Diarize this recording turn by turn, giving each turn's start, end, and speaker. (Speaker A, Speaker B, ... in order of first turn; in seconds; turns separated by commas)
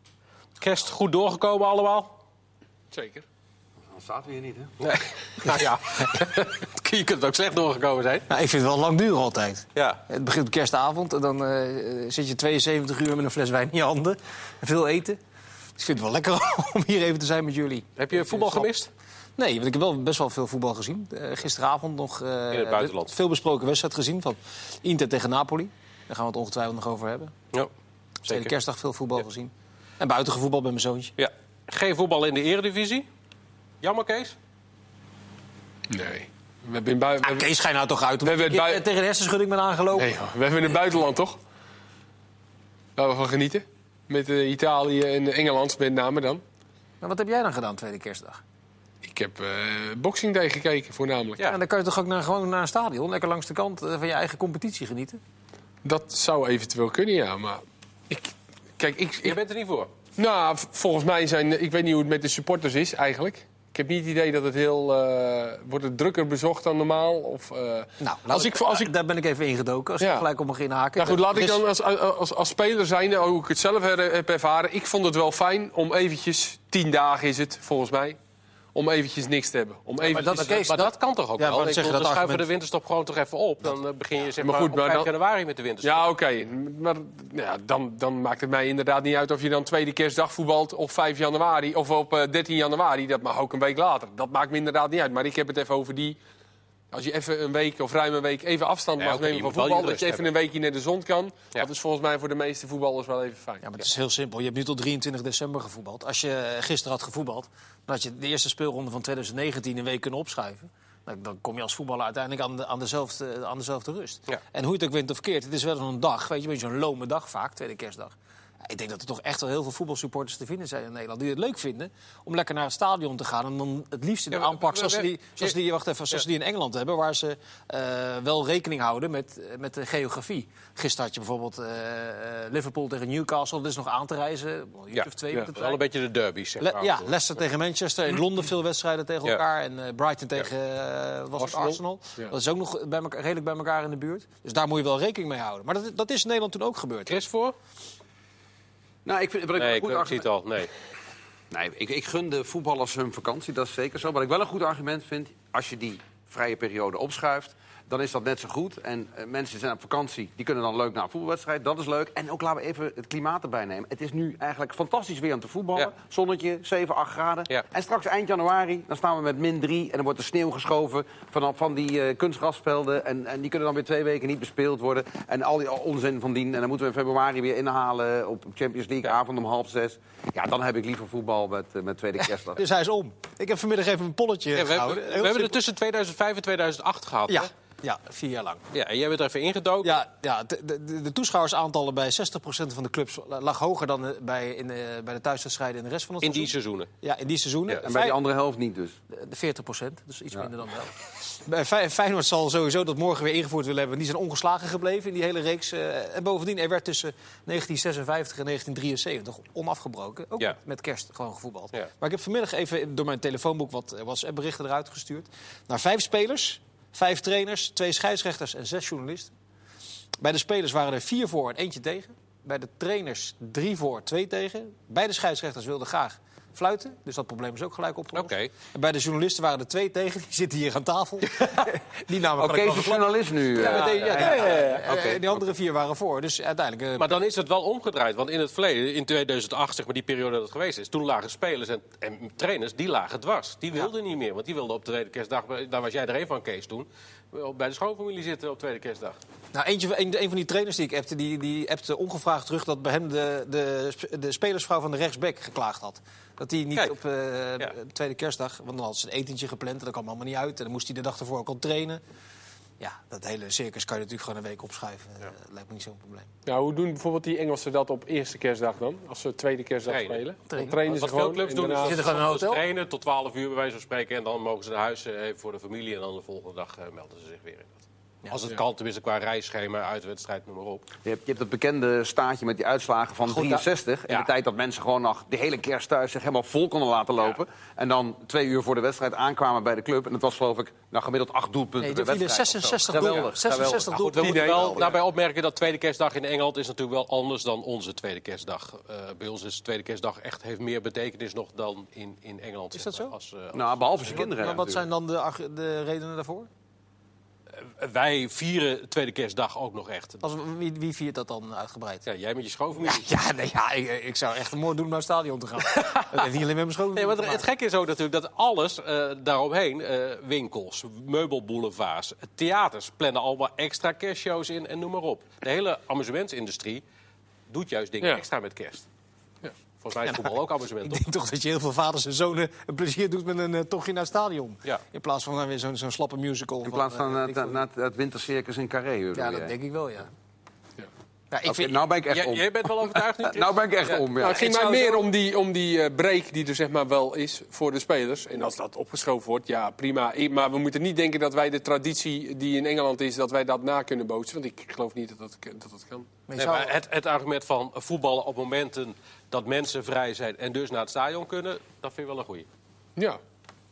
Speaker A: 0.6-2.1, Speaker B: 2.9-3.2, Speaker C: 3.9-4.7, Speaker A: 4.8-8.3, Speaker D: 8.3-15.2, Speaker A: 9.7-10.0, Speaker D: 15.8-18.7, Speaker A: 18.0-18.9, Speaker D: 19.4-27.3, Speaker A: 22.5-23.1, Speaker A: 28.2-28.5, Speaker D: 28.3-31.1, Speaker A: 31.2-33.1, Speaker A: 33.8-34.4, Speaker B: 35.9-37.5, Speaker D: 37.2-40.1, Speaker B: 38.2-38.8, Speaker B: 39.9-41.4, Speaker B: 43.0-46.4, Speaker D: 47.0-48.4, Speaker B: 49.0-51.4, Speaker D: 51.4-55.2, Speaker B: 55.8-59.4, Speaker A: 59.2-59.9, Speaker B: 60.2-68.9, Speaker D: 68.0-71.6, Speaker B: 70.0-70.3, Speaker B: 71.0-78.2, Speaker B: 78.7-80.7, Speaker D: 80.0-82.5, Speaker A: 80.7-86.0, Speaker B: 84.4-85.1, Speaker B: 85.8-96.2, Speaker B: 96.9-103.7, Speaker A: 99.0-100.3, Speaker D: 103.6-118.1, Speaker D: 118.6-135.8, Speaker A: 124.3-125.5, Speaker A: 134.9-137.1, Speaker D: 136.6-147.2, Speaker A: 147.1-147.5, Speaker C: 149.0-150.2, Speaker A: 149.5-150.7, Speaker C: 151.5-182.6, Speaker D: 182.6-185.6, Speaker A: 184.5-187.5, Speaker D: 187.3-188.6, Speaker A: 188.7-190.0, Speaker D: 189.8-198.2, Speaker A: 196.2-196.9, Speaker C: 197.8-198.9, Speaker D: 199.1-219.3, Speaker D: 220.2-237.1, Speaker A: 228.1-228.5, Speaker C: 232.4-234.4, Speaker A: 233.6-235.3, Speaker B: 234.4-234.8, Speaker A: 237.0-249.2, Speaker D: 249.5-262.0, Speaker D: 262.8-266.3, Speaker B: 266.4-272.1, Speaker A: 269.8-270.2, Speaker D: 270.5-270.8, Speaker A: 270.9-280.8, Speaker D: 271.8-272.6, Speaker C: 281.0-293.9, Speaker D: 283.3-283.6, Speaker D: 291.8-294.9, Speaker A: 293.9-304.3, Speaker B: 294.1-294.8, Speaker D: 302.7-303.1, Speaker C: 303.5-304.8, Speaker D: 304.1-306.5, Speaker A: 307.5-310.2, Speaker D: 310.2-312.0, Speaker A: 312.0-313.1, Speaker D: 312.8-317.4, Speaker A: 315.7-316.2, Speaker A: 316.9-326.8, Speaker A: 327.5-328.8, Speaker A: 329.8-331.0, Speaker D: 330.0-337.6, Speaker C: 336.6-339.5, Speaker D: 339.1-340.1, Speaker D: 341.3-341.8, Speaker C: 341.4-344.4, Speaker A: 342.1-344.0, Speaker B: 344.2-356.1, Speaker D: 344.2-345.1, Speaker D: 356.3-356.7, Speaker A: 356.4-362.5